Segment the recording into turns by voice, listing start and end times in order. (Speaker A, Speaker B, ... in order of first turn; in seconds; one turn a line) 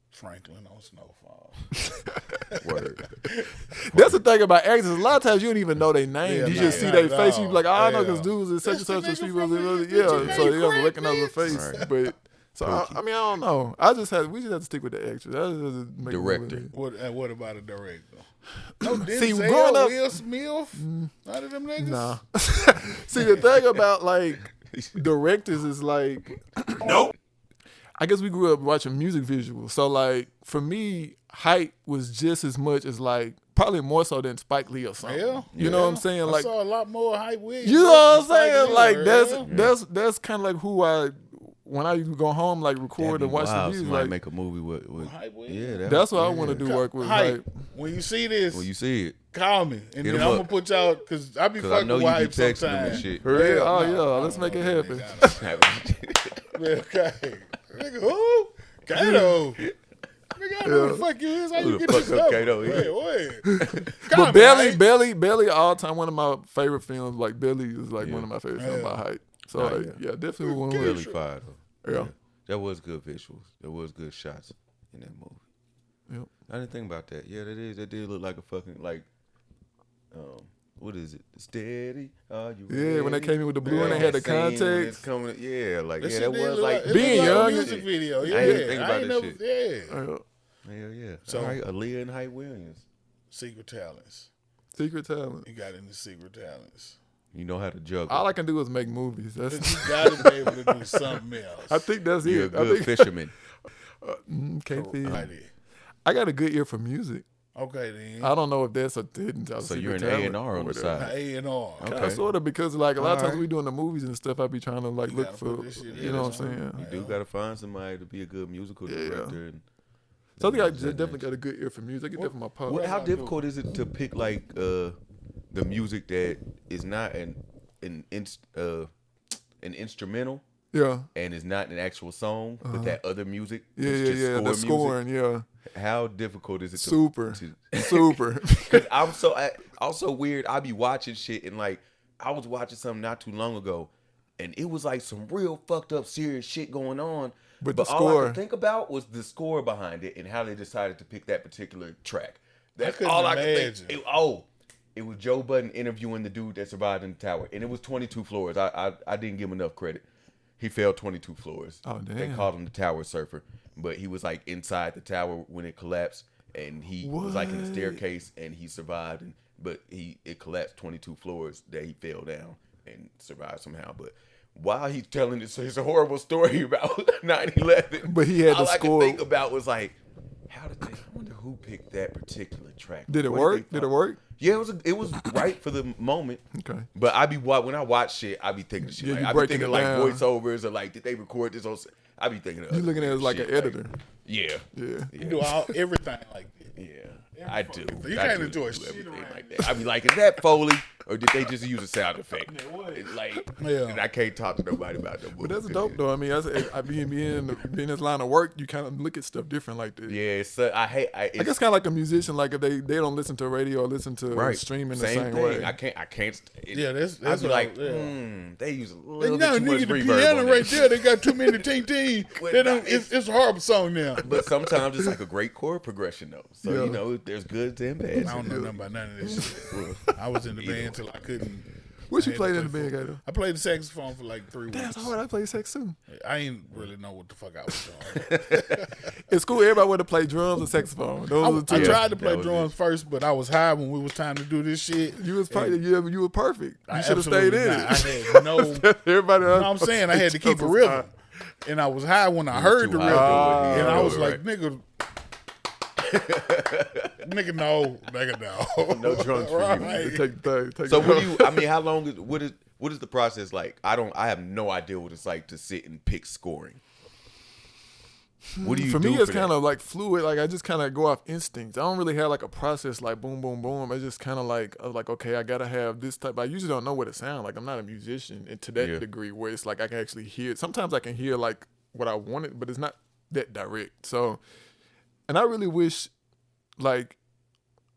Speaker A: 0.1-1.8
Speaker A: 2.3-2.7
Speaker B: 2.6-3.1
Speaker C: 3.7-16.7
Speaker B: 3.9-4.2
Speaker A: 6.2-11.9
Speaker B: 6.5-6.9
Speaker B: 10.0-10.6
Speaker B: 11.4-11.9
Speaker B: 12.6-13.0
Speaker B: 16.1-16.7
Speaker A: 16.7-18.3
Speaker A: 18.8-22.2
Speaker C: 18.9-20.0
Speaker C: 20.7-21.1
Speaker C: 21.8-27.1
Speaker B: 24.7-25.0
Speaker C: 28.0-36.5
Speaker A: 35.0-39.5
Speaker B: 35.5-36.0
Speaker C: 37.6-44.1
Speaker B: 39.4-39.7
Speaker B: 43.0-46.7
Speaker A: 45.0-48.7
Speaker C: 45.9-47.4
Speaker B: 48.5-49.2
Speaker A: 49.3-55.8
Speaker B: 50.0-50.5
Speaker B: 51.6-53.8
Speaker C: 53.2-55.3
Speaker B: 55.2-56.5
Speaker A: 56.5-59.6
Speaker C: 59.0-59.4
Speaker A: 60.3-64.8
Speaker C: 60.6-61.0
Speaker B: 61.5-62.9
Speaker C: 61.9-62.2
Speaker C: 63.4-71.0
Speaker B: 68.0-68.3
Speaker A: 68.5-69.0
Speaker B: 69.5-70.0
Speaker A: 70.4-71.2
Speaker B: 70.7-75.4
Speaker C: 71.8-72.1
Speaker B: 76.5-79.1
Speaker B: 80.1-89.4
Speaker C: 82.7-85.0
Speaker A: 83.6-84.1
Speaker A: 86.0-90.0
Speaker C: 86.8-88.8
Speaker C: 89.9-90.2
Speaker B: 90.6-92.8
Speaker A: 91.3-91.6
Speaker A: 93.3-94.3
Speaker C: 94.7-95.5
Speaker A: 95.5-97.0
Speaker B: 97.3-98.3
Speaker C: 98.1-101.1
Speaker A: 99.5-101.8
Speaker C: 101.7-103.1
Speaker B: 102.2-103.3
Speaker C: 104.0-105.3
Speaker A: 104.7-105.5
Speaker B: 105.0-105.3
Speaker C: 106.0-107.2
Speaker A: 107.5-108.3
Speaker C: 108.2-111.1
Speaker B: 109.6-111.2
Speaker A: 110.9-112.0
Speaker B: 111.8-112.2
Speaker C: 111.8-116.8
Speaker B: 113.0-113.5
Speaker A: 115.0-117.2
Speaker B: 115.9-119.6
Speaker C: 118.8-119.4
Speaker B: 120.4-121.2
Speaker C: 120.4-122.8
Speaker A: 122.2-123.4
Speaker B: 122.7-125.0
Speaker B: 125.5-128.9
Speaker B: 129.6-130.4
Speaker C: 130.7-131.1
Speaker B: 131.1-135.0
Speaker C: 132.6-133.0
Speaker C: 133.8-135.4
Speaker B: 135.7-160.0
Speaker C: 136.8-138.9
Speaker C: 147.6-148.4
Speaker A: 152.8-154.0
Speaker B: 160.6-179.9
Speaker C: 161.8-162.5
Speaker C: 167.0-168.0
Speaker C: 178.0-179.2
Speaker B: 180.5-186.4
Speaker C: 183.1-184.2
Speaker C: 186.5-186.9
Speaker B: 186.9-195.5
Speaker C: 188.9-190.2
Speaker C: 192.7-193.9
Speaker C: 194.7-195.7
Speaker A: 195.2-196.7
Speaker B: 196.8-206.0
Speaker A: 197.4-200.2
Speaker A: 202.6-203.0
Speaker A: 203.6-204.0
Speaker C: 205.4-210.2
Speaker B: 210.1-211.6
Speaker C: 211.4-215.7
Speaker B: 214.3-221.1
Speaker A: 216.7-218.2
Speaker A: 219.2-224.3
Speaker B: 222.3-223.1
Speaker B: 224.2-228.5
Speaker C: 226.6-227.0
Speaker C: 228.1-229.6
Speaker A: 228.2-235.2
Speaker B: 229.7-231.0
Speaker C: 232.1-233.2
Speaker C: 234.7-236.0
Speaker A: 236.1-239.1
Speaker B: 238.1-238.7
Speaker C: 239.3-242.1
Speaker A: 241.4-245.8
Speaker B: 241.7-242.7
Speaker C: 245.1-251.1
Speaker A: 246.9-248.9
Speaker A: 249.5-251.1
Speaker A: 251.6-254.8
Speaker B: 252.5-254.4
Speaker C: 253.0-254.3
Speaker B: 256.0-257.1
Speaker A: 257.2-260.3
Speaker B: 258.9-260.1
Speaker C: 259.8-261.7
Speaker B: 260.9-266.8
Speaker C: 268.5-284.4
Speaker B: 268.6-269.5
Speaker B: 278.8-279.0
Speaker C: 285.3-286.1
Speaker C: 286.8-287.2